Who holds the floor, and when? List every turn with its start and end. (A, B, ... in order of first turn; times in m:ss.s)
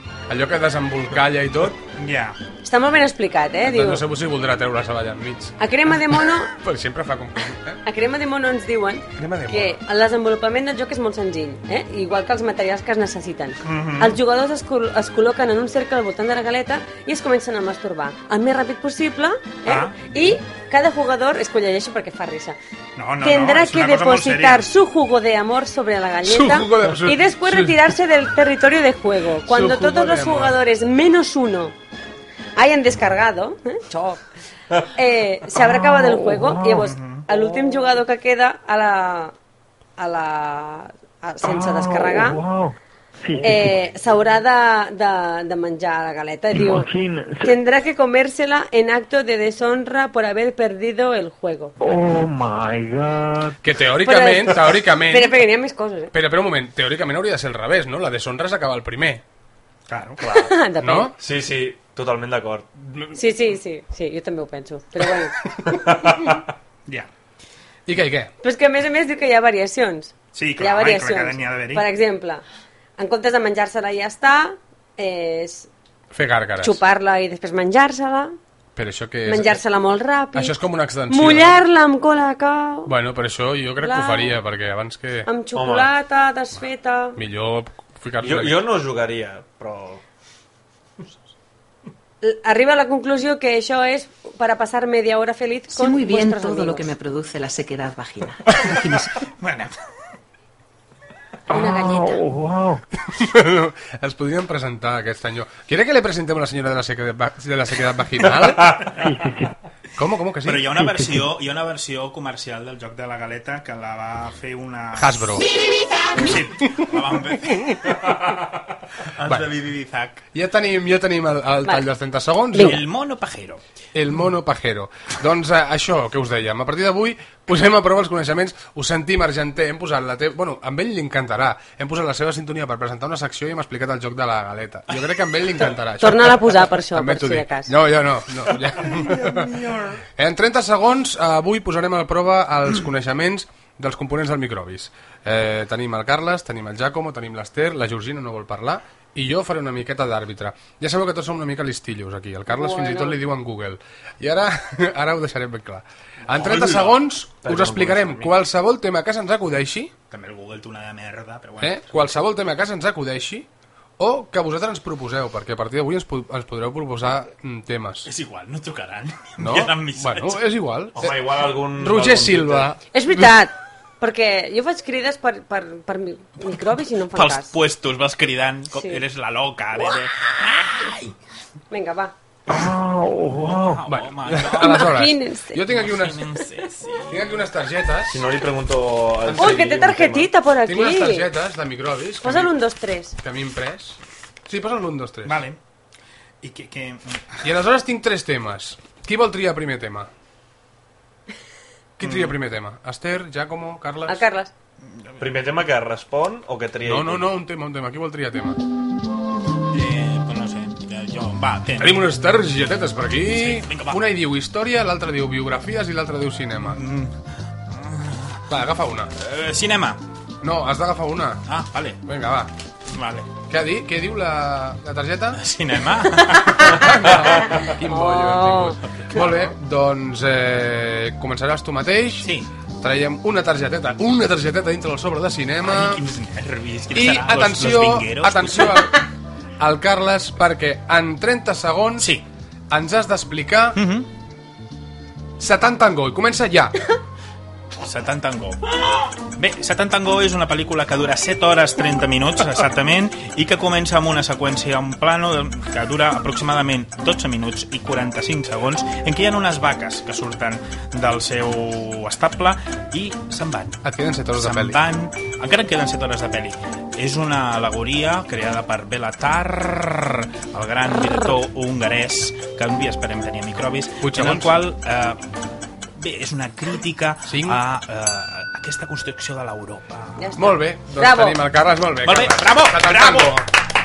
0:00.3-0:01.8 A
0:02.0-0:02.4 B
0:02.6-0:04.0 C
0:03.6-0:05.6 A
0:05.6-0:06.5 C
0:06.5-0:07.8 A
0:07.8-0:22.6 C
0:09.2-0:09.8 A
0:13.6-0:14.2 B
0:19.6-0:20.1 B
0:23.0-0:24.7 B
0:23.2-0:31.7 C
0:26.2-0:27.9 A
0:29.4-0:30.6 A
0:32.6-0:34.2 C
0:34.9-0:39.3 C
0:35.5-0:37.4 D
0:36.9-0:37.2 B
0:40.0-0:42.4 C
0:41.4-0:43.8 D
0:43.4-0:46.9 C
0:46.5-0:47.6 D
0:47.4-0:51.7 C
0:51.8-0:53.6 D
0:53.6-0:55.4 A
0:54.0-0:56.1 C
0:56.1-0:59.2 A
0:59.9-1:00.2 B
1:00.2-1:00.5 E
1:00.4-1:01.1 C
1:00.8-1:01.1 A
1:01.2-1:02.7 E
1:03.1-1:05.4 C
1:05.7-1:06.4 E
1:07.9-1:08.3 A
1:08.4-1:12.4 C
1:10.3-1:11.8 B
1:13.0-1:15.7 C
1:16.1-1:16.8 A
1:16.6-1:18.3 C
1:18.8-1:19.6 A
1:19.2-1:20.6 C
1:20.3-1:21.6 A
1:21.1-1:22.9 C
1:22.8-1:25.3 A
1:23.8-1:24.3 C
1:25.2-1:27.2 C
1:25.5-1:25.9 E
1:27.2-1:28.6 A
1:28.2-1:30.0 E
1:32.2-1:36.9 C
1:35.7-1:39.1 F
1:39.4-1:39.7 B
1:41.5-1:42.2 C
1:41.5-1:42.8 D
1:43.1-1:48.8 A
1:48.9-1:49.5 D
1:50.0-1:50.7 A
1:50.4-1:55.3 B
1:50.7-1:51.3 D
1:55.0-1:55.5 A
1:56.1-1:58.2 B
1:59.2-2:00.2 B
1:59.2-1:59.5 A
2:00.3-2:02.8 A
2:02.5-2:02.8 C
2:02.6-2:03.6 B
2:03.9-2:19.6 A
2:16.0-2:17.7 C
2:20.1-2:39.9 A
2:32.5-2:33.2 C
2:36.4-2:36.8 B
2:36.4-2:36.9 E
2:37.4-2:38.3 E
2:40.1-2:42.1 B
2:41.6-2:43.5 A
2:44.0-2:48.1 A
2:48.0-2:50.4 B
2:49.4-2:52.8 A
2:51.0-2:52.7 E
2:52.9-2:57.5 C
2:57.1-3:01.1 B
2:58.7-2:59.0 C
3:01.7-3:02.1 C
3:02.5-3:03.8 D
3:03.2-3:05.0 B
3:03.8-3:06.2 A
3:04.6-3:05.6 C
3:05.7-3:07.4 B
3:07.1-3:08.2 A
3:08.1-3:10.3 E
3:09.2-3:09.6 A
3:09.4-3:11.3 C
3:10.6-3:12.5 A
3:12.2-3:13.2 C
3:13.2-3:15.4 A
3:15.2-3:15.6 B
3:16.4-3:17.4 B
3:17.4-3:20.1 A
3:22.0-3:24.2 A
3:22.0-3:22.3 B
3:24.1-3:24.5 C
3:25.0-3:25.4 B
3:25.2-3:27.2 E
3:26.8-3:28.6 A
3:29.7-3:32.1 B
3:31.8-3:36.8 A
3:33.3-3:34.0 B
3:36.6-3:37.1 B
3:37.7-3:38.4 B
3:38.5-3:39.1 A
3:39.2-3:40.0 B
3:40.4-3:41.4 A
3:41.5-3:42.0 B
3:42.0-3:42.5 A
3:42.9-3:43.3 B
3:43.5-3:45.4 A
3:45.4-3:47.2 B
3:46.4-3:46.9 C
3:46.6-3:56.0 A
3:47.6-3:48.8 C
3:52.2-3:52.5 B
3:55.7-3:58.9 B
3:56.9-3:59.0 A
3:59.6-4:02.1 A
4:02.0-4:02.2 B
4:02.7-4:03.8 A
4:03.8-4:04.1 B
4:05.4-4:06.7 A
4:07.8-4:08.7 B
4:09.4-4:23.8 B
4:23.8-4:24.8 A
4:24.4-4:35.2 B
4:34.0-4:34.6 A
4:36.0-4:40.2 B
4:37.2-4:37.6 A
4:40.2-4:41.4 C
4:40.4-4:43.5 A
4:42.0-4:43.5 B